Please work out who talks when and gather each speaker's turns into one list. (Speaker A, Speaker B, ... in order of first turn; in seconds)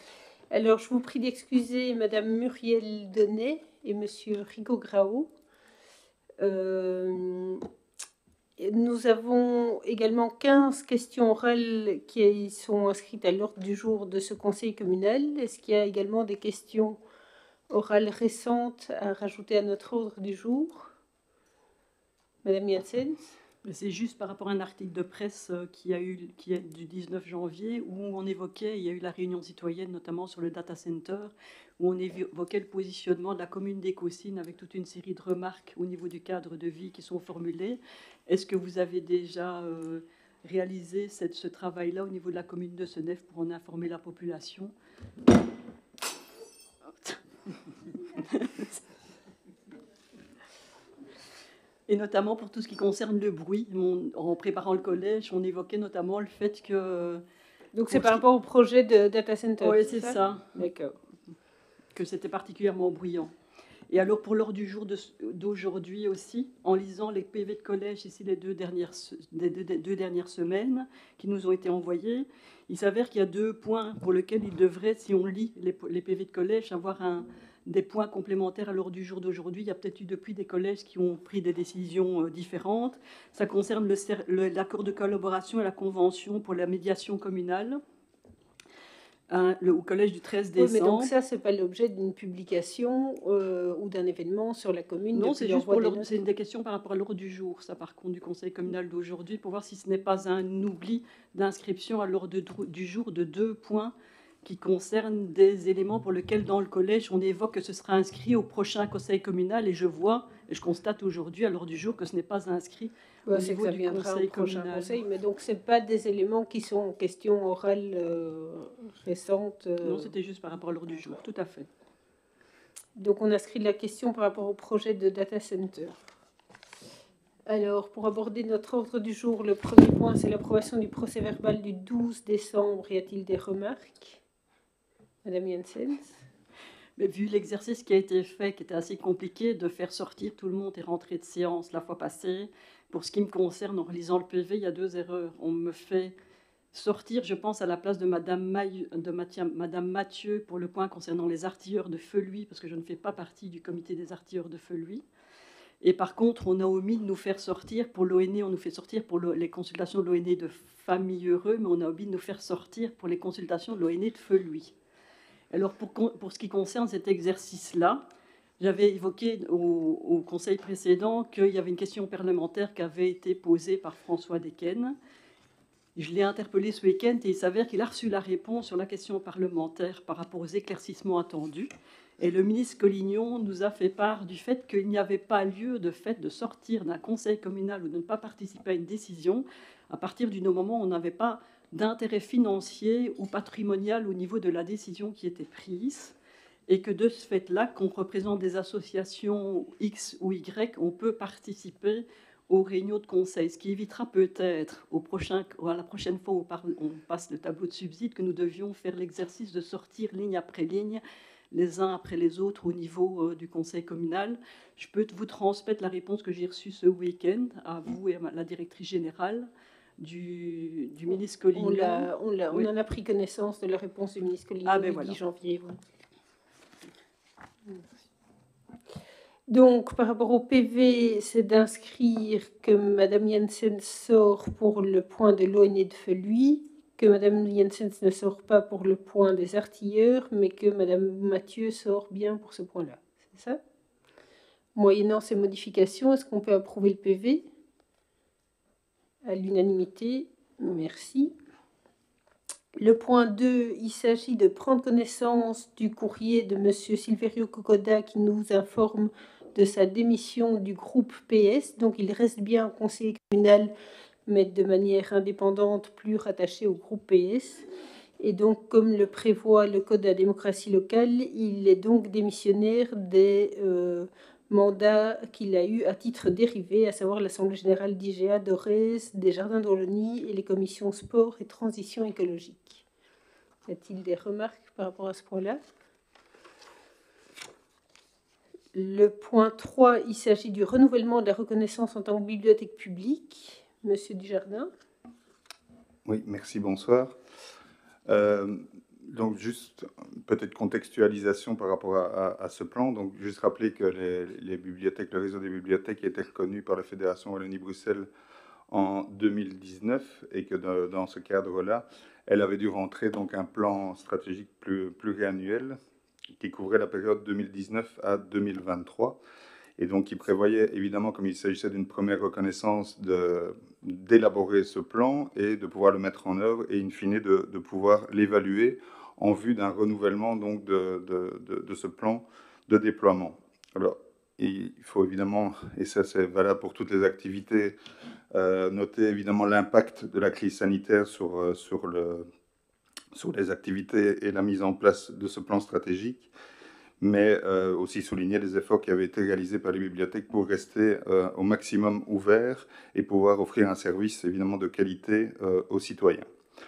Speaker A: 0.5-5.3, 6.4-7.7, 8.6-17.0, 17.7-20.9, 22.4-23.4, 57.7-61.0, 90.6-96.2, 113.3-120.1, 123.0-126.0, 127.5-134.2, 135.2-136.2, 221.6-225.8, 229.5-243.6, 244.8-247.5, 249.2-251.3, 252.8-263.7, 264.3-267.7, 268.2-282.9, 283.7-285.6, 288.7-294.7
Speaker B: 23.6-44.7, 48.0-48.8, 51.9-57.2, 57.9-58.2, 59.6-60.7, 61.9-63.3, 63.9-87.8, 89.3-91.1, 95.1-115.0, 119.8-121.7, 137.0-146.2, 146.7-155.0, 155.8-164.8, 165.5-168.1, 168.6-175.0, 176.0-196.2, 196.7-222.7, 224.7-225.2
Speaker C: 296.1-297.2, 298.1-308.1, 308.7-315.8, 316.4-319.2, 319.8-337.8, 338.3-342.3, 343.1-346.3, 347.0-356.3